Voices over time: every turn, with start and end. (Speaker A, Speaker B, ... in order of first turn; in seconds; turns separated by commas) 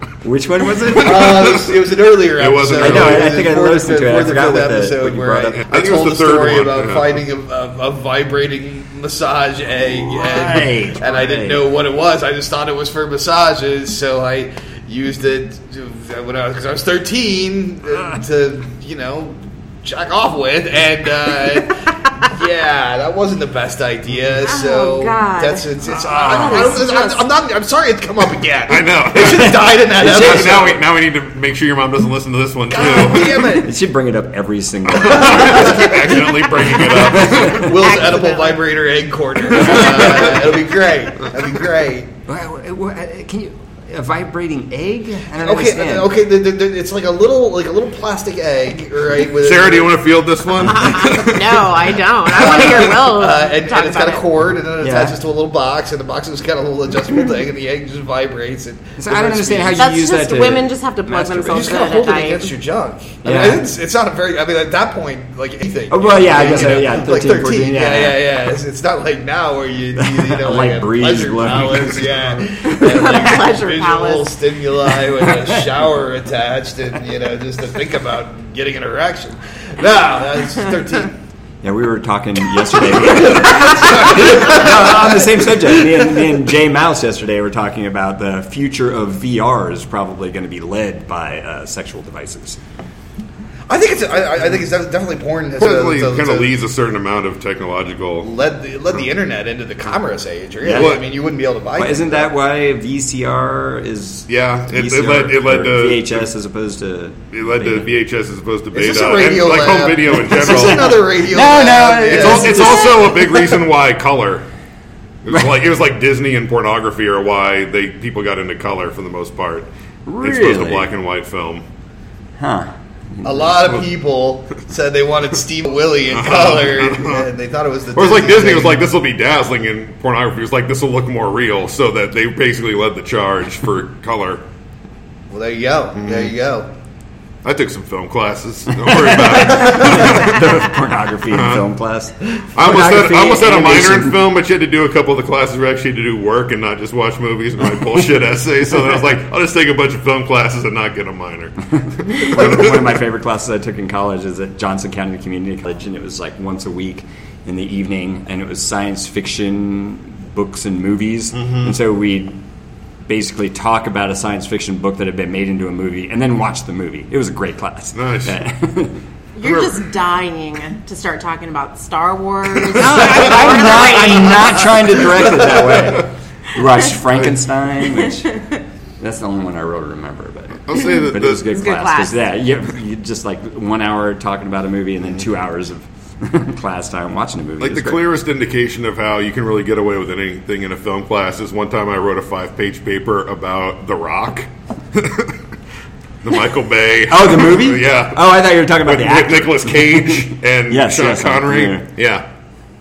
Speaker A: 0.2-1.6, Speaker B: 0.9-30.8, Speaker C: 1.2-1.7, Speaker C: 2.4-3.3, Speaker A: 2.8-5.6, Speaker C: 5.5-7.2, Speaker A: 10.0-11.6, Speaker D: 24.4-27.2, Speaker C: 28.7-33.6, Speaker A: 30.1-30.5, Speaker B: 32.7-33.7, Speaker A: 33.4-36.2, Speaker C: 35.0-37.7, Speaker B: 35.0-36.2, Speaker A: 36.8-37.7, Speaker B: 37.3-42.1, Speaker D: 37.6-38.6, Speaker D: 39.5-40.2, Speaker C: 39.7-40.0, Speaker A: 39.8-40.4, Speaker A: 42.3-46.1, Speaker B: 45.4-50.0, Speaker C: 49.2-52.9, Speaker D: 50.6-54.2, Speaker B: 52.4-59.8, Speaker A: 54.8-55.2, Speaker A: 59.0-61.9, Speaker D: 59.8-62.5, Speaker B: 61.5-81.2, Speaker A: 63.2-63.6, Speaker A: 65.9-68.3, Speaker A: 70.0-72.3, Speaker D: 72.6-74.4, Speaker A: 81.6-92.6, Speaker B: 83.5-85.2, Speaker B: 93.7-96.5, Speaker C: 95.6-98.3, Speaker B: 98.2-102.3, Speaker A: 100.6-101.0, Speaker C: 100.7-101.0, Speaker A: 101.8-107.9, Speaker C: 104.3-106.3, Speaker C: 107.3-111.0, Speaker B: 108.7-112.7, Speaker A: 110.1-113.6, Speaker C: 112.1-114.5, Speaker D: 112.6-113.0, Speaker C: 115.2-119.7, Speaker A: 120.0-120.9, Speaker C: 120.2-121.6, Speaker A: 122.4-123.8, Speaker B: 123.2-128.8, Speaker C: 126.1-127.3, Speaker C: 127.9-134.4, Speaker B: 135.3-136.7, Speaker C: 136.0-136.3, Speaker C: 137.4-140.5, Speaker A: 138.8-144.2, Speaker C: 141.3-141.6, Speaker C: 142.5-152.9, Speaker A: 152.1-162.4, Speaker C: 161.3-161.7, Speaker A: 163.1-169.0, Speaker C: 167.9-168.4, Speaker D: 169.3-175.0, Speaker C: 169.4-169.8, Speaker A: 172.7-178.4, Speaker C: 172.9-173.4, Speaker D: 178.0-178.6, Speaker A: 179.0-188.1, Speaker C: 180.7-181.5, Speaker D: 181.5-182.2, Speaker C: 187.6-195.4, Speaker C: 196.2-202.2, Speaker A: 197.1-201.9